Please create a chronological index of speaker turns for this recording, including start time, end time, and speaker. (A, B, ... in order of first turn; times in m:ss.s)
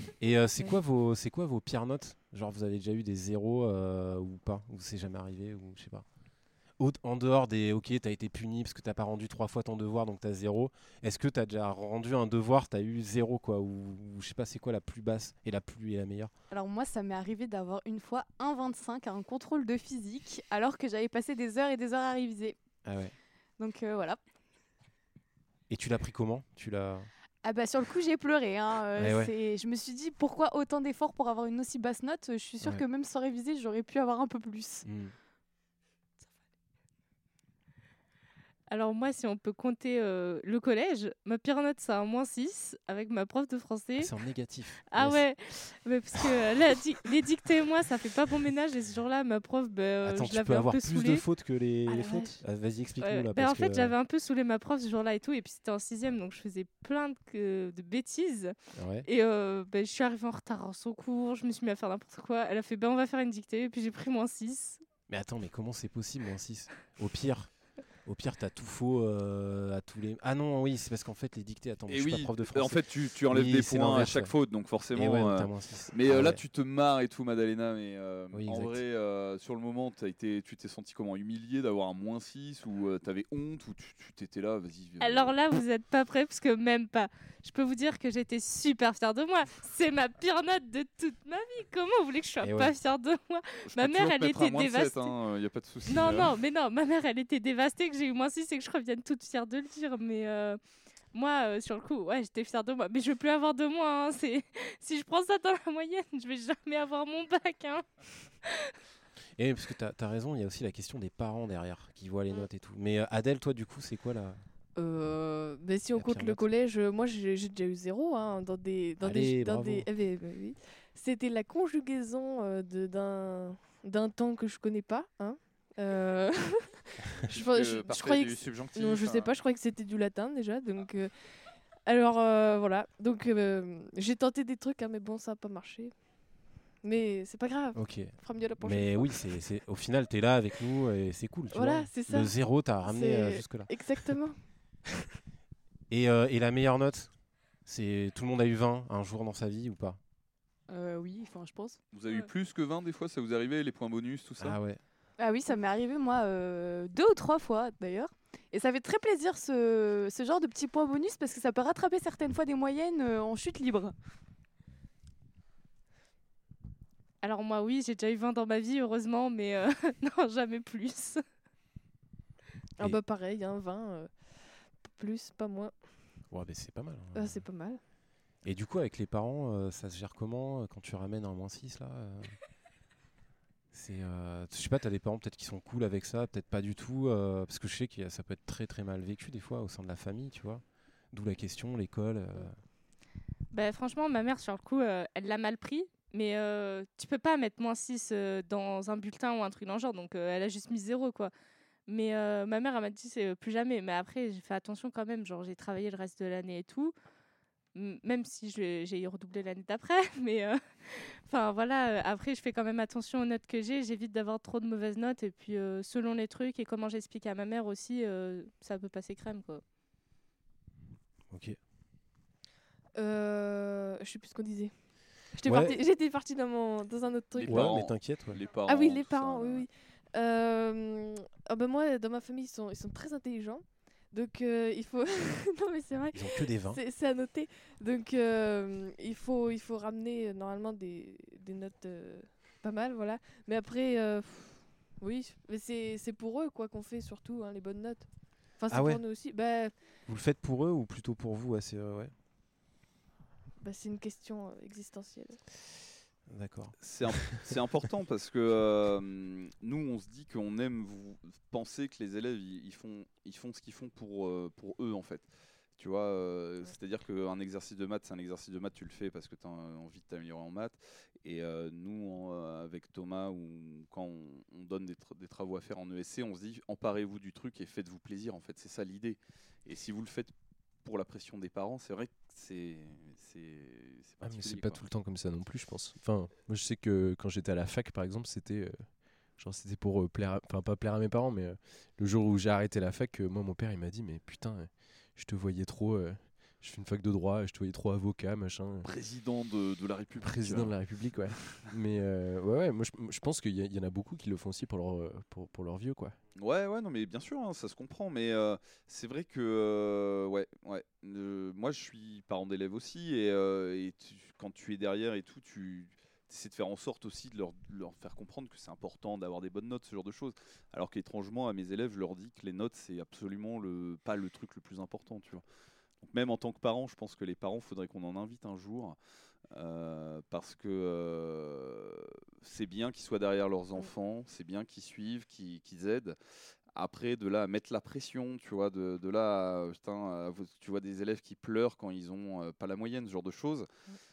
0:00.2-0:06.0 A
0:06.8-0:16.3 A
0:16.5-0:22.6 B
0:22.8-0:23.1 A
0:23.6-0:24.2 B
0:25.7-0:27.1 A
0:27.4-0:34.9 B
0:29.0-0:29.3 A
0:34.8-0:35.1 A
0:38.7-0:44.1 C
0:44.0-0:45.2 A
0:44.9-0:51.2 C
0:50.0-0:53.9 A
0:51.9-0:52.4 C
0:53.0-0:58.5 C
0:58.7-0:59.1 A
0:59.0-1:04.8 C
1:05.1-1:14.3 A
1:11.9-1:25.4 D
1:14.9-1:16.4 A
1:18.3-1:18.8 A
1:25.0-1:35.1 C
1:32.4-1:32.7 A
1:33.7-1:36.3 D
1:35.9-1:40.6 C
1:41.1-1:48.6 C
1:49.4-1:54.4 A
1:54.8-2:11.3 E
1:56.0-1:56.4 A
1:59.0-1:59.9 A
2:07.3-2:09.4 D
2:11.8-2:16.3 E
2:16.8-2:19.2 E
2:17.8-2:24.2 A
2:21.5-2:24.4 E
2:25.9-2:30.0 A
2:30.7-2:31.8 B
2:31.9-2:34.6 D
2:34.4-2:34.8 A
2:35.2-2:44.0 B
2:47.2-2:51.2 C
2:52.8-2:55.8 E
2:56.3-2:57.4 A
2:57.2-2:57.8 E
2:58.4-3:02.4 A
3:03.7-3:12.6 A
3:13.5-3:21.3 C
3:21.9-3:26.9 C
3:27.8-3:39.6 C
3:41.3-3:41.6 A
3:43.0-3:47.8 E
3:45.4-3:45.8 A
3:47.4-3:49.7 D
3:47.5-3:48.4 A
3:48.7-4:09.8 E
3:56.1-3:56.8 A
4:08.7-4:09.0 A
4:10.1-4:12.1 A
4:13.6-4:15.4 E
4:16.3-4:16.8 A
4:16.8-4:40.3 D
4:40.8-4:44.8 D
4:44.2-4:58.9 F
4:58.8-5:01.7 D
5:00.2-5:06.2 F
5:06.4-5:25.4 D
5:26.0-5:29.0 D
5:29.5-5:36.2 D
5:36.7-5:43.7 D